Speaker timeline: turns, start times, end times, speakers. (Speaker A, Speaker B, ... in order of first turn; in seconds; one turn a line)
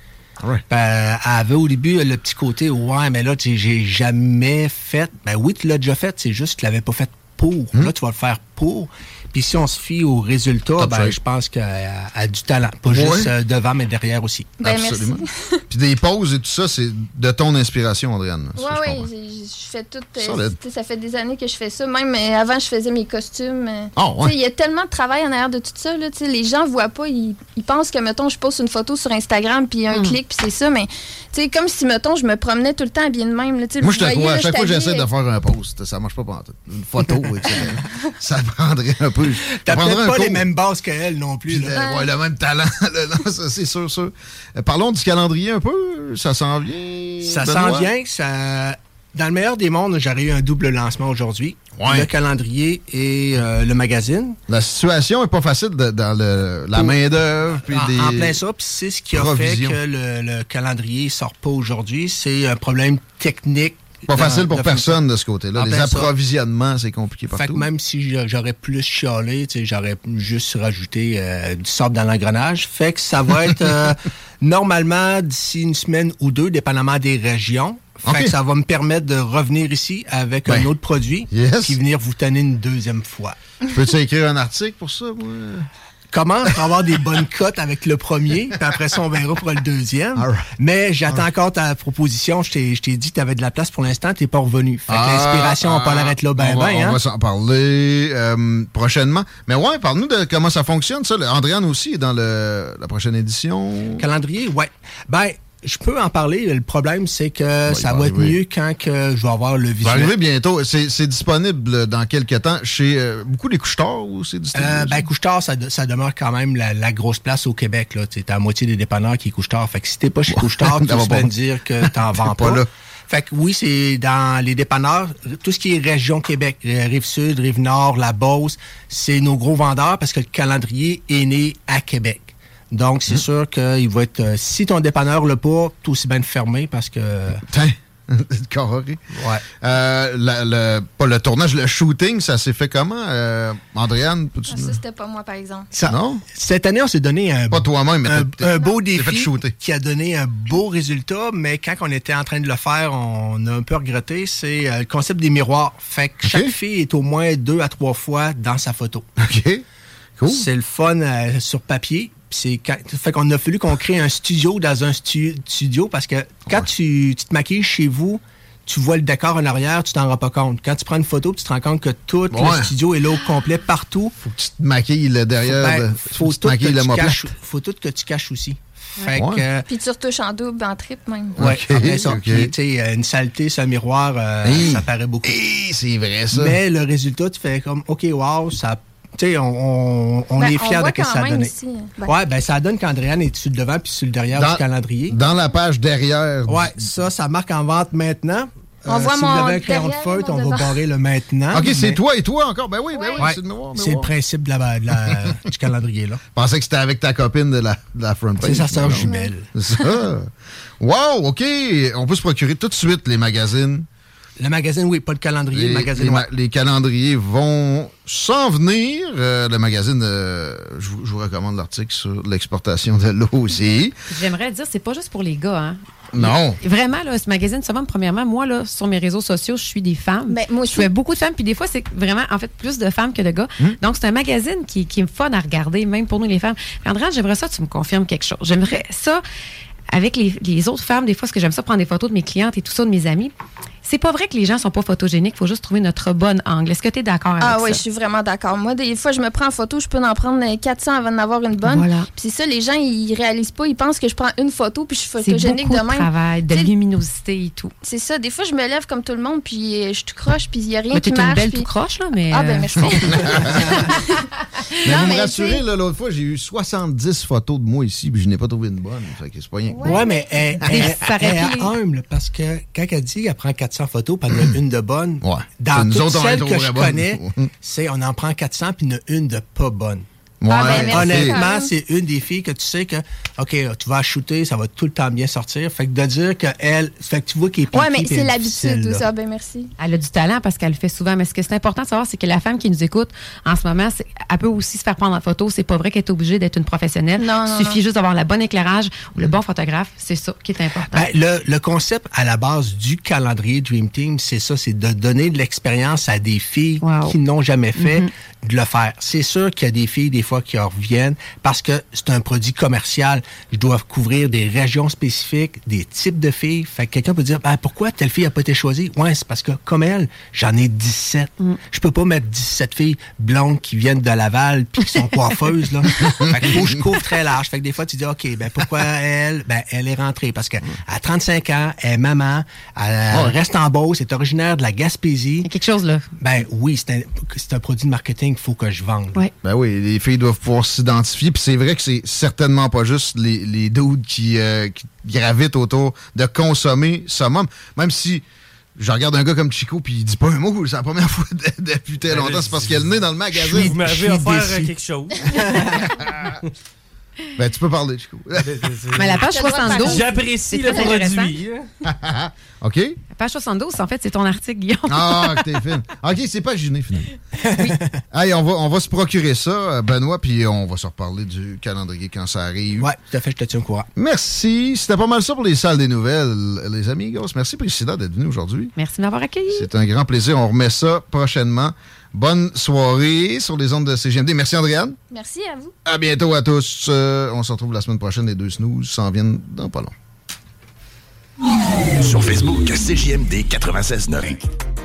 Speaker A: 0.7-14.6
Speaker B: 10.8-11.2
Speaker B: 12.9-13.3
Speaker C: 14.6-15.6
Speaker B: 14.6-19.1
Speaker C: 18.6-35.1
Speaker B: 20.2-20.6
Speaker B: 24.0-24.4
Speaker D: 29.9-30.2
Speaker B: 33.8-40.5
Speaker A: 39.5-41.8
Speaker B: 41.5-47.9
Speaker C: 41.8-42.1
Speaker A: 47.2-54.4
Speaker B: 51.8-52.1
Speaker B: 54.5-58.4
Speaker A: 56.7-57.0
Speaker A: 57.6-65.0
Speaker B: 59.1-59.8
Speaker B: 64.1-67.7
Speaker A: 65.5-66.1
Speaker A: 67.3-83.4
Speaker B: 78.1-78.3
Speaker B: 81.3-81.8
Speaker B: 83.7-85.7
Speaker A: 86.1-97.0
Speaker B: 90.2-90.5
Speaker B: 94.9-104.0
Speaker A: 104.0-110.1
Speaker B: 107.7-108.4
Speaker B: 109.8-115.0
Speaker A: 114.5-137.4
Speaker B: 120.3-121.3
Speaker B: 121.8-122.7
Speaker B: 137.5-139.0
Speaker A: 139.1-139.4
Speaker B: 139.6-144.8
Speaker C: 144.5-145.7
Speaker A: 145.7-159.1
Speaker B: 145.9-146.2
Speaker B: 147.5-149.5
Speaker B: 156.2-156.5
Speaker B: 159.2-159.7
Speaker B: 160.2-160.5
Speaker A: 160.3-174.1
Speaker B: 172.3-172.7
Speaker B: 174.2-177.3
Speaker A: 175.4-179.7
Speaker B: 179.1-179.4
Speaker C: 179.7-181.4
Speaker B: 181.4-182.5
Speaker A: 181.4-185.4
Speaker B: 184.4-186.6
Speaker A: 186.3-195.2
Speaker C: 190.4-192.1
Speaker B: 194.3-196.9
Speaker A: 196.5-202.0
Speaker C: 198.9-200.8
Speaker B: 201.5-204.1
Speaker C: 202.9-203.4
Speaker A: 203.2-206.2
Speaker B: 206.3-213.9
Speaker A: 208.4-209.5
Speaker C: 208.9-209.3
Speaker A: 214.4-216.3
Speaker B: 215.5-224.0
Speaker D: 224.1-239.2
Speaker B: 226.1-226.6
Speaker C: 230.3-230.9
Speaker D: 239.9-247.8
Speaker C: 247.4-256.7
Speaker D: 251.7-252.1
Speaker D: 255.2-257.7
Speaker C: 257.8-261.7
Speaker D: 260.9-263.4
Speaker C: 262.3-264.3
Speaker B: 263.2-263.8
Speaker C: 264.8-265.6
Speaker B: 264.8-270.1
Speaker C: 269.7-270.5
Speaker A: 269.8-280.1
Speaker B: 270.6-270.9
Speaker D: 270.6-271.7
Speaker B: 275.2-277.5
Speaker B: 280.4-281.4
Speaker C: 280.5-281.7
Speaker A: 280.7-289.1
Speaker C: 287.7-289.7
Speaker D: 289.8-301.1
Speaker C: 297.2-297.8
Speaker A: 300.9-335.5
Speaker D: 306.8-307.2
Speaker D: 307.8-308.1
Speaker D: 335.4-336.1
Speaker A: 336.2-339.2
Speaker B: 339.4-348.2
Speaker B: 348.8-354.7
Speaker E: 352.1-356.4
Speaker A: 355.3-355.7
Speaker B: 357.4-359.2
Speaker E: 358.4-359.1
Speaker D: 358.9-361.4
Speaker C: 359.2-360.9
Speaker E: 359.9-361.7
Speaker B: 361.9-363.0
Speaker D: 363.1-365.5
Speaker B: 364.9-367.1
Speaker A: 367.5-367.8
Speaker B: 368.1-372.9
Speaker A: 372.8-373.9
Speaker B: 374.0-378.7
Speaker D: 378.8-379.7
Speaker B: 379.5-385.0
Speaker C: 385.1-385.7
Speaker B: 385.9-389.9
Speaker F: 391.9-394.4